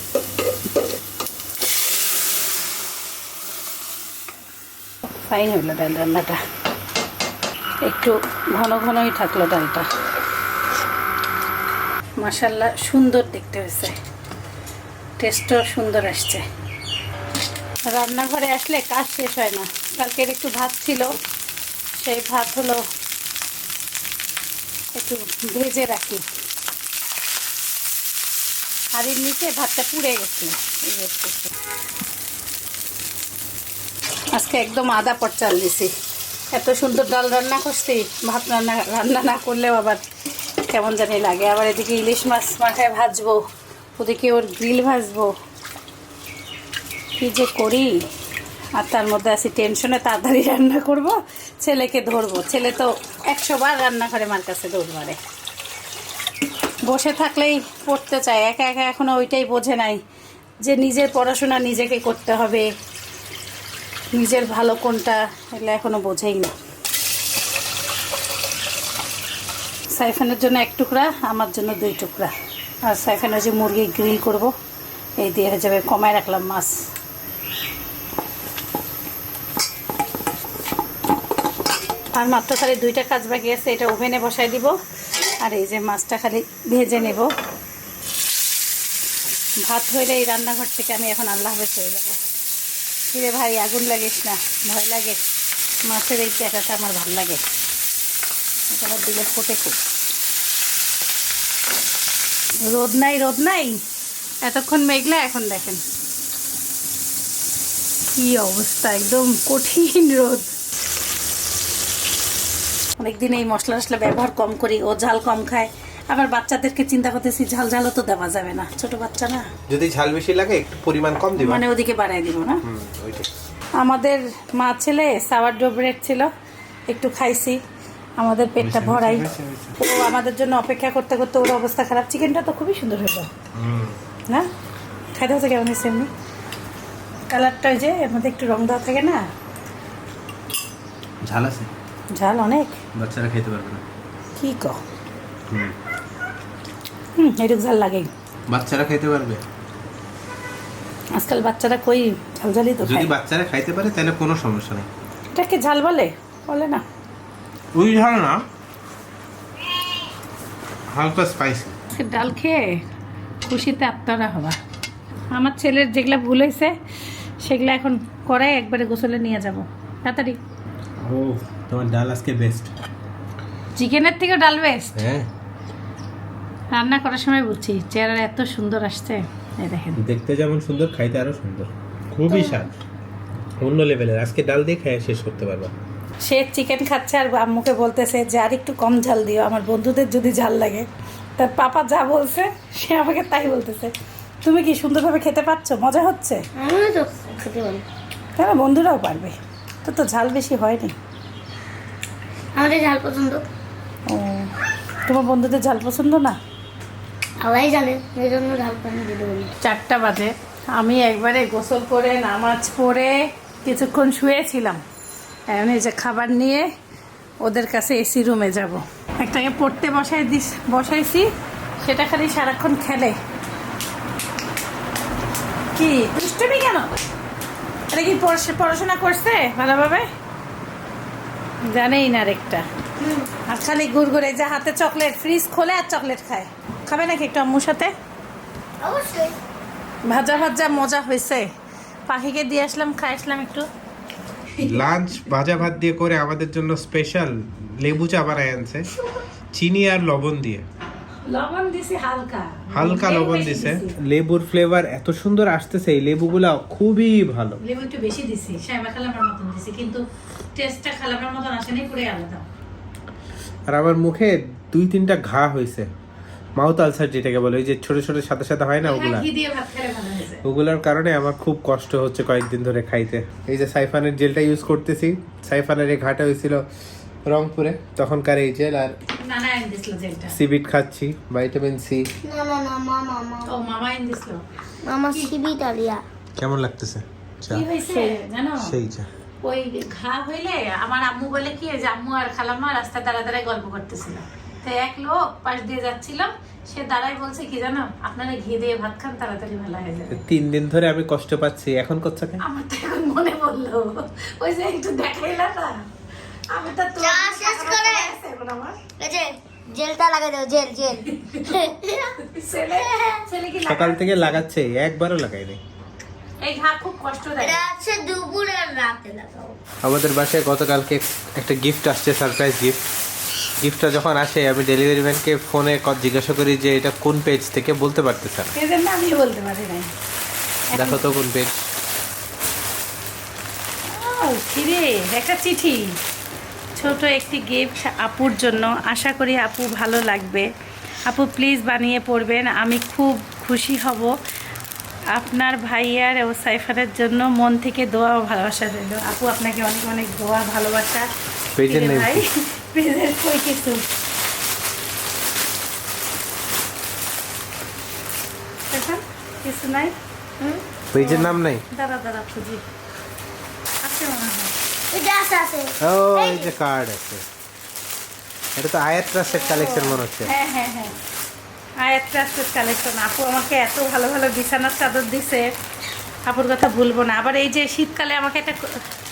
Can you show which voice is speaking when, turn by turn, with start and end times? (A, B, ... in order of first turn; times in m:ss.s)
0:05.1-0:06.4 A
0:07.8-0:09.9 A
0:12.2-0:14.0 A
0:15.2-0:16.4 A
0:17.9-0:21.2 A
0:22.0-0:22.8 A
0:25.0-0:26.2 A
0:29.0-0:31.5 A
0:34.3-0:35.9 A
0:36.5-0:40.0 A
0:40.7-0:43.4 A
0:44.0-0:45.3 A
0:47.2-0:48.0 A
0:48.8-0:55.2 A
0:56.9-1:00.0 A
1:00.6-1:02.7 A
1:04.1-1:06.5 A
1:10.0-1:12.3 A
1:12.8-1:14.5 A
1:15.2-1:16.8 A
1:22.1-1:24.8 A
1:25.4-1:27.3 A
1:29.6-1:32.2 A
1:33.1-1:35.2 A
1:35.9-1:37.4 A
1:38.7-1:39.8 A
1:42.6-1:43.8 A
1:44.4-1:45.8 A
1:48.1-1:50.5 A
1:53.0-1:59.5 A
1:59.7-2:01.6 B
2:01.4-2:02.6 A
2:02.6-2:03.3 B
2:03.8-2:06.3 A
2:06.9-2:07.6 A
2:08.2-2:13.3 A
2:08.6-2:09.8 B
2:13.6-2:14.0 B
2:15.2-2:16.1 A
2:17.3-2:19.2 A
2:21.2-2:21.7 B
2:22.2-2:22.8 A
2:23.0-2:23.8 B
2:24.4-2:24.8 A
2:25.5-2:25.8 B
2:27.2-2:28.1 A
2:28.5-2:29.4 B
2:31.2-2:33.1 A
2:32.8-2:34.9 B
2:35.3-2:36.8 A
2:37.7-2:38.4 B
2:40.9-2:41.8 B
2:41.9-2:42.8 A
2:43.5-2:44.6 A
2:45.3-2:46.8 A
2:47.4-2:50.4 A
2:51.0-2:52.7 B
2:53.8-2:55.0 A
2:55.0-2:55.3 B
2:56.7-3:00.0 A
3:00.0-3:02.7 B
3:02.3-3:02.6 C
3:03.6-3:05.7 B
3:06.2-3:10.9 A
3:11.4-3:13.9 A
3:14.4-3:16.4 A
3:16.6-3:17.8 C
3:18.4-3:21.0 A
3:22.6-3:23.4 C
3:24.1-3:24.5 A
3:25.1-3:26.4 A
3:27.4-3:29.5 C
3:29.6-3:34.8 A
3:35.5-3:36.7 A
3:37.4-3:41.3 A
3:41.8-3:43.2 A
3:45.8-3:47.0 A
3:47.9-3:50.1 A
3:51.7-3:52.7 A
3:53.0-3:53.3 C
3:53.5-3:57.9 A
3:58.8-3:59.4 C
4:00.1-4:01.5 A
4:02.1-4:03.7 A
4:04.6-4:04.9 A
4:04.6-4:08.9 B
4:09.5-4:10.7 B
4:11.3-4:14.0 A
4:12.7-4:17.6 B
4:17.6-4:20.0 A
4:20.6-4:22.5 A
4:23.7-4:25.9 B
4:26.6-4:29.3 B
4:28.8-4:30.4 A
4:30.4-4:36.6 B
4:37.2-4:39.0 B
4:39.2-4:40.4 A
4:40.3-4:42.1 B
4:42.2-4:43.5 C
4:43.5-4:44.4 A
4:44.8-4:46.0 C
4:46.4-4:47.7 B
4:47.5-4:48.7 A
4:47.9-4:48.2 C
4:48.6-4:49.1 B
4:49.4-5:00.2 A
5:00.1-5:02.4 B
5:02.4-5:05.9 A
5:06.5-5:08.8 A
5:07.0-5:08.1 C
5:09.0-5:13.2 C
5:11.1-5:11.7 A
5:12.2-5:14.4 A
5:13.7-5:15.6 B
5:16.4-5:17.6 A
5:17.4-5:19.6 C
5:19.8-5:22.8 B
5:23.6-5:28.5 B
5:28.6-5:29.9 A
5:30.7-5:31.0 A
5:30.7-5:31.6 B
5:33.9-5:36.0 A
5:36.8-5:40.5 A
5:41.1-5:44.1 A
5:45.1-5:51.1 A
5:51.6-5:52.2 B
5:51.6-5:53.8 A
5:58.7-6:00.0 A
6:00.9-6:01.6 B
6:01.0-6:02.6 A
6:03.8-6:04.5 A
6:04.9-6:06.5 C
6:05.8-6:07.2 B
6:08.6-6:10.3 B
6:09.9-6:11.0 A
6:11.8-6:15.5 A
6:16.3-6:18.8 A